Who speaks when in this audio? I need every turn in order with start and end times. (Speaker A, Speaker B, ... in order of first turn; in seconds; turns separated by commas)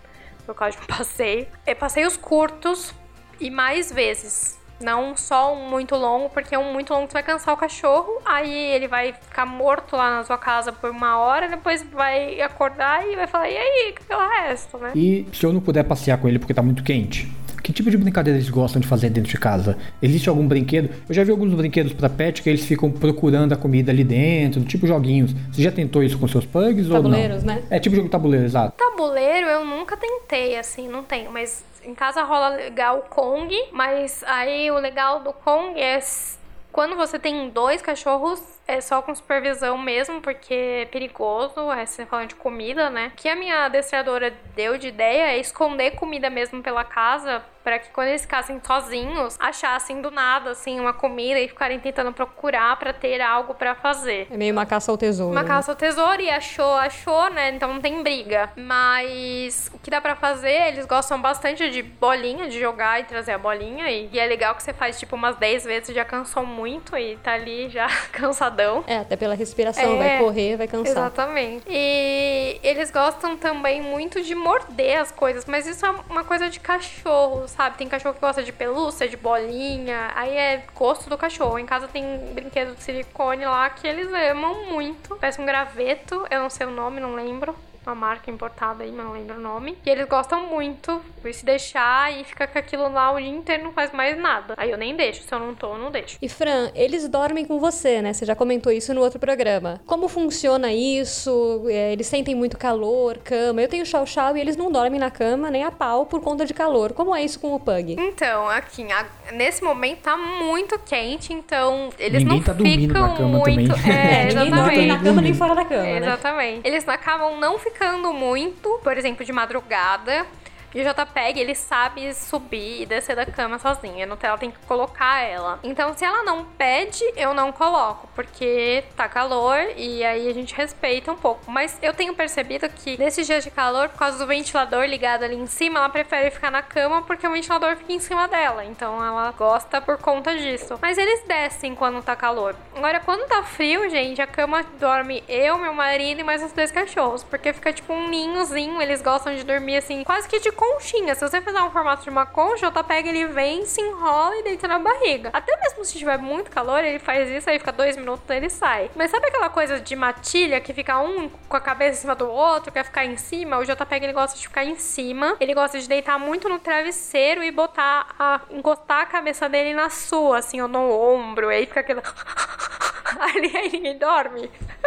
Speaker A: 0.5-14.9, Speaker B: 14.9-28.7, Speaker C: 26.9-27.7, Speaker A: 28.8-54.3, Speaker C: 54.3-55.6, Speaker A: 55.3-68.9, Speaker C: 68.9-71.1, Speaker A: 69.8-70.3, Speaker A: 70.8-96.2, Speaker C: 96.2-108.0, Speaker A: 108.0-115.2, Speaker B: 112.1-115.4, Speaker C: 113.8-116.2, Speaker A: 115.8-174.5